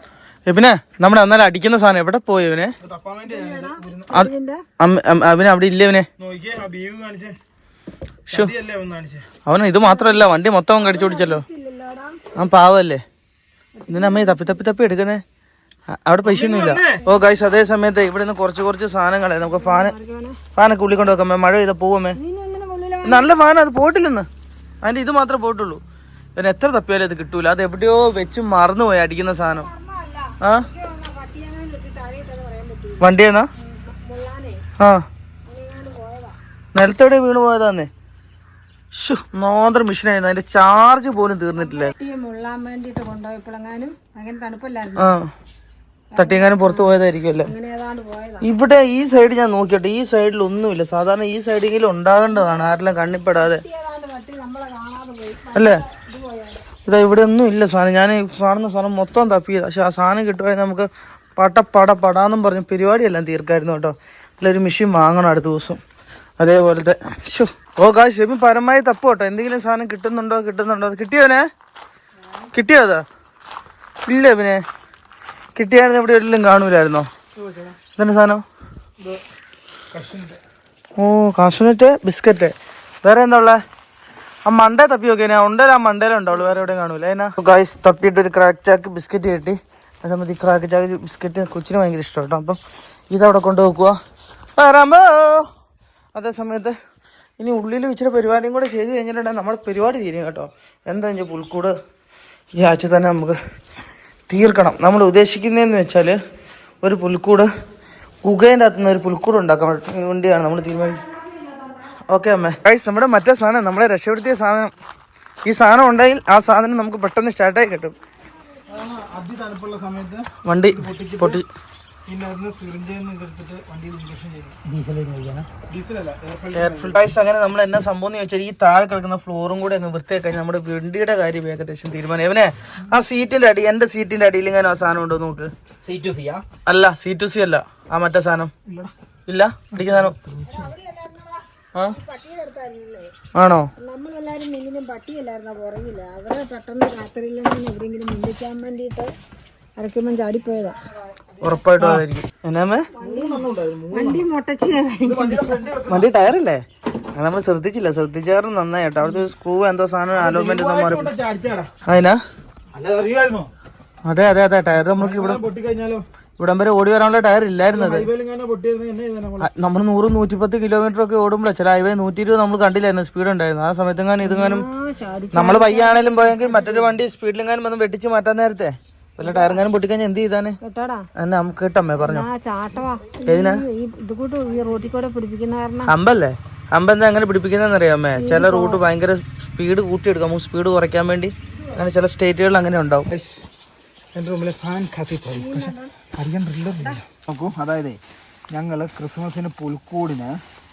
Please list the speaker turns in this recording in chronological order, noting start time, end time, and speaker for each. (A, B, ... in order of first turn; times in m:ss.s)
0:00.4-0:02.7 A
0:02.8-0:04.2 B
0:03.3-0:04.6 C
0:04.1-0:06.1 A
0:06.2-0:07.4 B
0:08.3-0:09.3 B
0:09.4-0:11.4 A
0:09.8-0:12.3 C
0:12.3-0:13.0 A
0:13.8-0:14.6 C
0:13.9-0:15.2 A
0:15.9-0:19.9 A
0:16.2-0:17.0 B
0:19.5-0:20.4 C
0:20.6-0:22.2 A
0:22.2-0:23.3 C
0:23.0-0:24.3 A
0:24.8-0:25.8 A
0:26.4-0:29.7 A
0:29.5-0:33.1 C
0:30.4-0:30.7 A
0:33.0-0:33.5 A
0:33.6-0:34.6 C
0:34.8-0:35.0 A
0:35.5-0:36.4 C
0:36.7-0:37.9 A
0:38.9-0:41.9 A
0:41.6-0:45.2 C
0:45.0-0:45.3 A
0:46.1-0:48.5 C
0:46.2-0:47.5 A
0:48.4-0:53.6 A
0:52.4-0:52.6 C
0:53.3-0:56.7 C
0:55.5-0:55.8 A
0:56.8-1:05.8 A
1:06.4-1:11.5 A
1:12.5-1:13.0 A
1:14.0-1:14.6 A
1:15.6-1:17.1 A
1:17.4-1:17.8 B
1:18.0-1:18.4 A
1:19.9-1:20.4 B
1:21.0-1:23.6 A
1:24.4-1:32.6 A
1:33.1-1:34.0 A
1:34.6-1:35.5 A
1:36.1-1:36.7 A
1:37.4-1:41.7 A
1:42.5-1:43.4 A
1:44.3-1:46.2 A
1:46.8-1:47.5 A
1:48.2-1:51.0 A
1:52.1-1:54.7 A
1:55.4-1:58.0 A
1:58.7-2:01.4 B
2:00.4-2:01.4 A
2:02.1-2:07.1 B
2:06.5-2:15.5 A
2:15.8-2:16.4 B
2:16.6-2:18.5 A
2:18.6-2:18.9 B
2:19.3-2:20.1 A
2:19.7-2:20.7 B
2:20.5-2:23.1 C
2:23.3-2:23.7 A
2:23.8-2:29.1 C
2:29.8-2:31.5 C
2:31.4-2:32.9 A
2:31.7-2:32.0 B
2:33.0-2:35.6 C
2:33.0-2:34.2 B
2:35.0-2:36.1 B
2:35.9-2:41.1 A
2:40.1-2:41.7 B
2:41.8-2:42.2 A
2:42.7-2:43.5 B
2:44.0-2:45.4 A
2:44.8-2:46.0 B
2:46.4-2:48.1 A
2:47.7-2:49.5 B
2:49.4-2:54.7 A
2:54.2-2:56.2 C
2:55.3-3:00.6 A
2:56.3-2:56.9 B
2:59.2-2:59.6 C
3:00.6-3:01.1 C
3:01.2-3:02.3 A
3:02.0-3:05.9 C
3:03.2-3:03.6 A
3:05.9-3:13.1 A
3:08.2-3:08.8 C
3:13.1-3:13.5 B
3:14.1-3:18.0 B
3:15.3-3:15.9 C
3:18.5-3:20.4 B